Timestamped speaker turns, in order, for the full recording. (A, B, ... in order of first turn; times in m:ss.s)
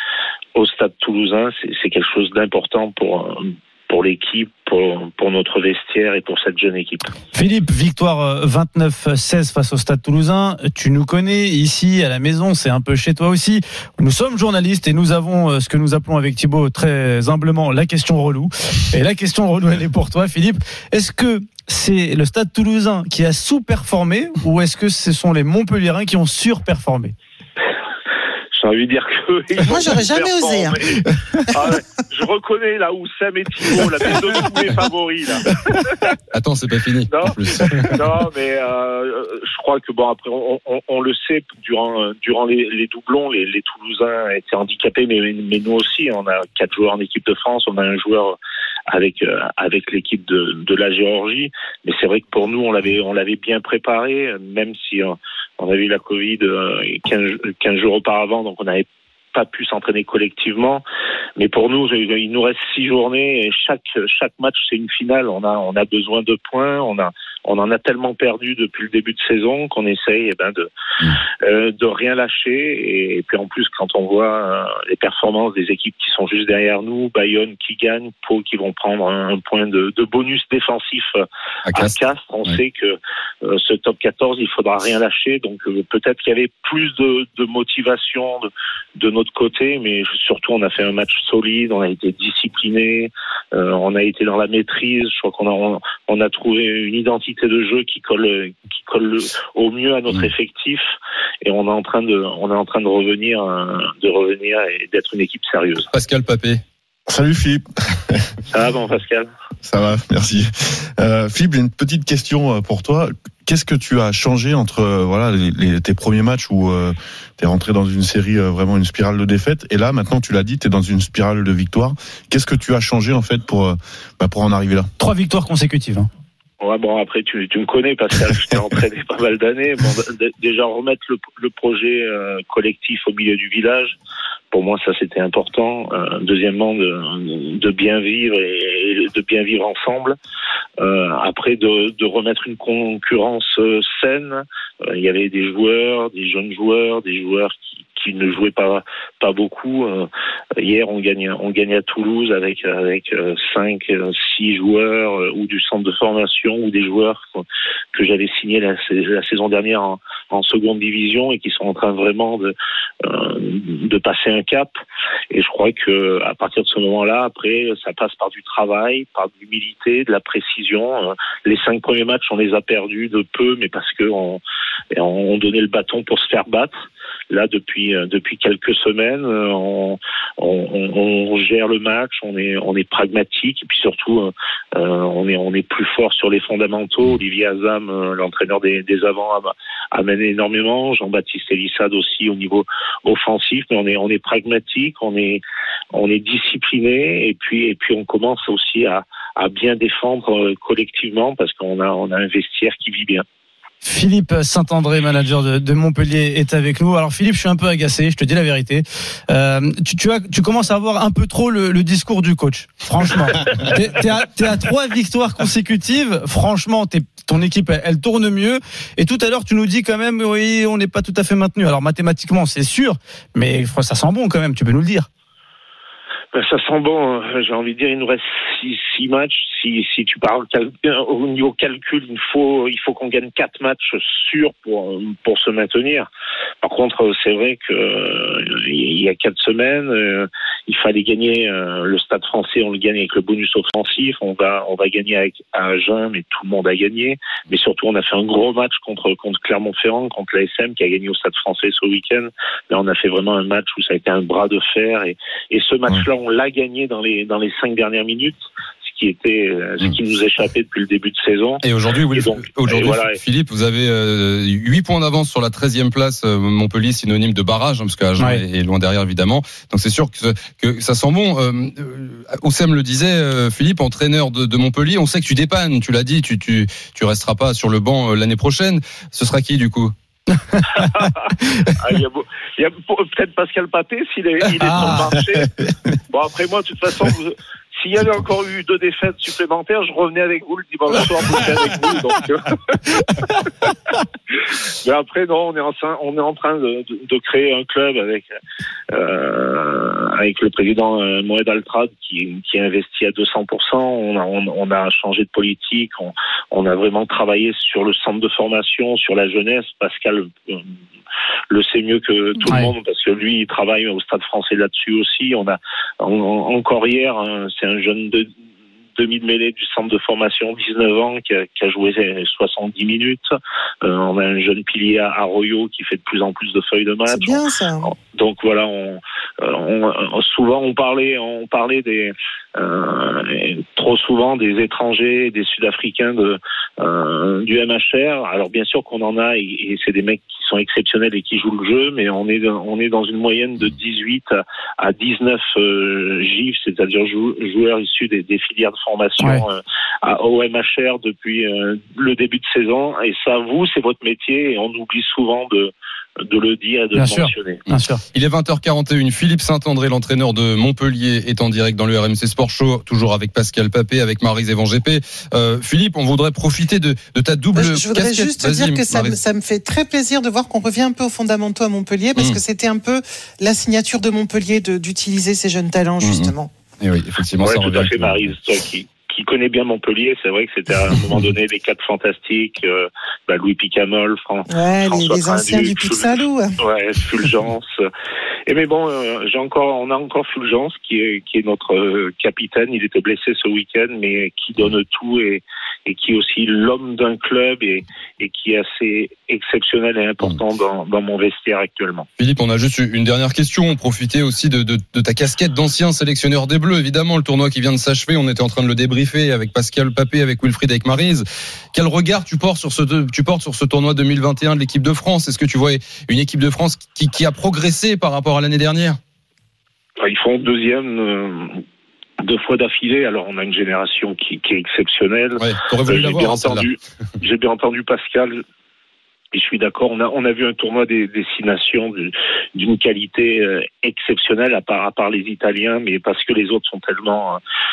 0:00.6-0:07.1 A
0:07.3-0:27.1 B
0:28.5-0:35.5 A
0:29.6-0:30.8 C
0:31.0-0:31.4 B
0:36.3-0:38.0 D
0:37.1-0:48.4 A
0:48.9-1:00.8 A
1:01.4-1:10.7 A
1:11.4-1:40.8 A
1:21.7-1:22.6 D
1:41.4-1:45.9 A
1:45.9-1:46.6 D
1:47.1-1:48.3 E
1:48.5-1:49.3 A
1:49.6-2:04.9 E
2:05.0-2:06.1 B
2:06.6-2:14.0 A
2:14.5-2:20.2 A
2:20.8-2:37.4 A
2:37.9-2:42.5 A
2:43.0-2:44.7 A
2:45.3-2:54.4 A
2:54.9-2:56.7 A
2:57.3-3:15.4 A
3:15.9-3:23.2 A
3:23.8-3:45.1 B
3:46.3-3:56.1 A
3:56.6-4:23.2 A
4:21.6-4:39.9 D
4:40.5-4:40.8 B
4:40.7-4:45.5 A
4:44.6-4:45.1 B
4:46.1-4:52.8 A
4:54.8-4:58.3 A
4:58.9-5:10.7 A
5:11.5-5:18.3 A
5:12.4-5:12.7 B
5:19.0-5:23.2 A
5:23.8-5:57.6 A
5:27.0-5:27.9 C
5:57.0-5:58.0 B
5:57.7-6:09.2 D
6:07.5-6:16.5 C
6:16.0-6:18.3 D
6:17.4-6:27.7 A
6:24.5-6:26.6 C
6:28.5-6:42.0 A
6:42.2-6:59.0 D
7:00.0-7:01.6 A
7:02.2-7:08.4 A
7:05.4-7:06.7 D
7:09.3-7:17.4 A